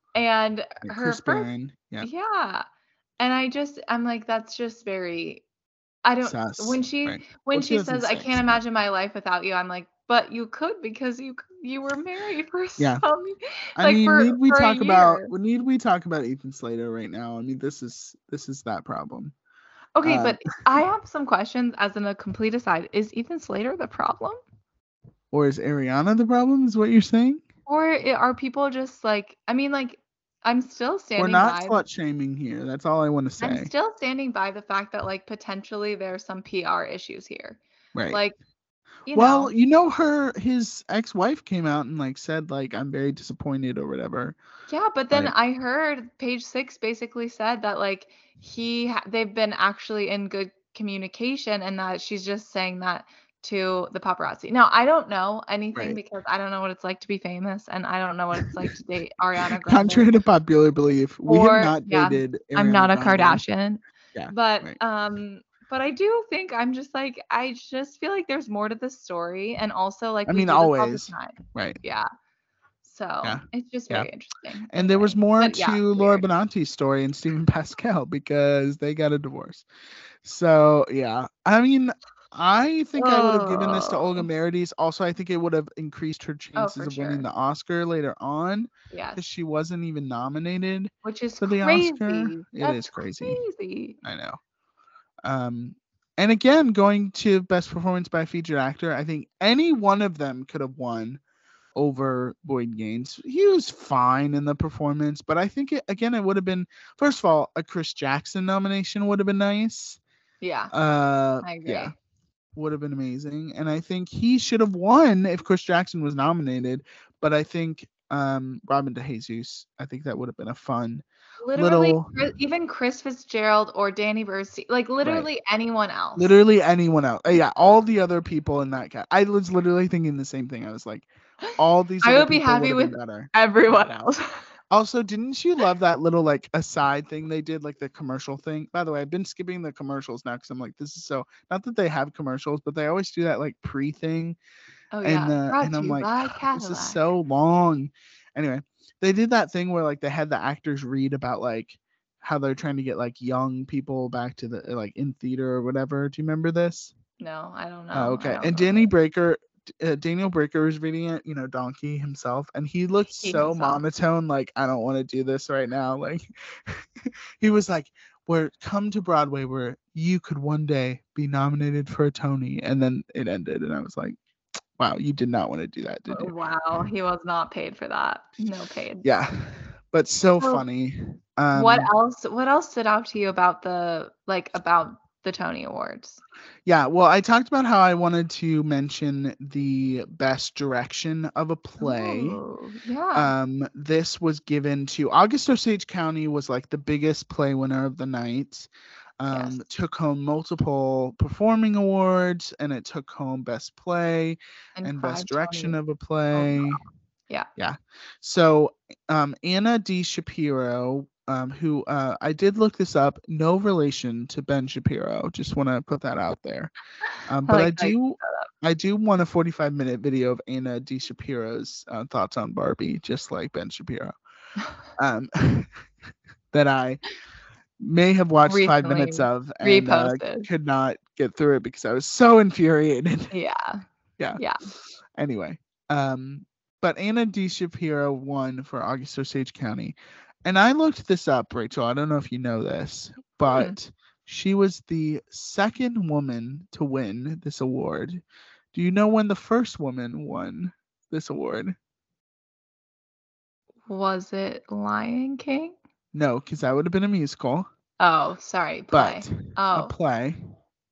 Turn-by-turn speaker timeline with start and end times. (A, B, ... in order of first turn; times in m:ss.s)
0:00.2-0:01.5 A
0:00.8-0:02.1 B
0:02.0-0:02.6 A
0:03.2-0:05.4 A
0:06.0-0:15.3 A
0:06.2-0:08.6 B
0:12.8-0:13.0 B
0:13.8-0:19.3 B
0:20.0-0:24.4 A
0:20.0-0:20.5 B
0:25.3-0:27.4 B
0:27.7-0:31.8 A
0:31.2-0:33.7 B
0:33.4-0:37.6 A
0:38.0-0:38.2 B
0:38.1-0:38.4 A
0:39.1-0:39.5 A
0:39.1-0:44.4 B
0:44.7-1:00.1 A
0:59.6-1:03.4 B
1:01.3-1:12.1 A
1:04.2-1:04.8 B
1:10.3-1:11.8 B
1:12.8-1:16.3 A
1:13.2-1:14.1 B
1:14.7-1:19.7 B
1:20.2-1:33.4 B
1:23.0-1:24.2 A
1:26.6-1:27.2 A
1:28.9-1:29.2 A
1:31.0-1:34.0 A
1:34.0-1:34.4 B
1:35.2-1:41.2 B
1:41.8-1:50.0 B
1:50.4-1:50.7 A
1:50.7-1:51.9 B
1:51.4-1:51.9 A
1:52.6-2:01.0 B
2:01.4-2:06.3 A
2:01.6-2:02.1 B
2:05.0-2:05.3 B
2:06.2-2:13.3 B
2:12.0-2:14.4 A
2:14.7-2:24.4 B
2:24.9-2:27.0 A
2:25.0-2:36.9 B
2:37.2-2:38.9 A
2:37.9-2:54.2 B
2:43.2-2:43.8 A
2:54.8-2:56.4 B
2:56.1-2:59.0 A
2:59.0-3:01.9 B
3:00.4-3:00.6 A
3:01.5-3:06.2 A
3:06.7-3:12.4 B
3:11.8-3:13.3 A
3:13.1-3:26.8 B
3:19.3-3:19.6 A
3:24.8-3:25.8 A
3:26.3-3:26.8 A
3:27.6-3:36.7 B
3:37.3-3:44.2 B
3:37.5-3:38.5 A
3:45.0-3:45.7 B
3:46.5-3:47.0 B
3:47.8-3:53.3 B
3:48.5-3:50.5 A
3:53.3-3:53.8 A
3:55.2-4:08.2 B
4:03.5-4:03.8 A
4:08.7-4:11.8 B
4:13.9-4:15.8 A
4:16.1-4:17.7 B
4:18.0-4:19.9 A
4:18.9-4:20.4 B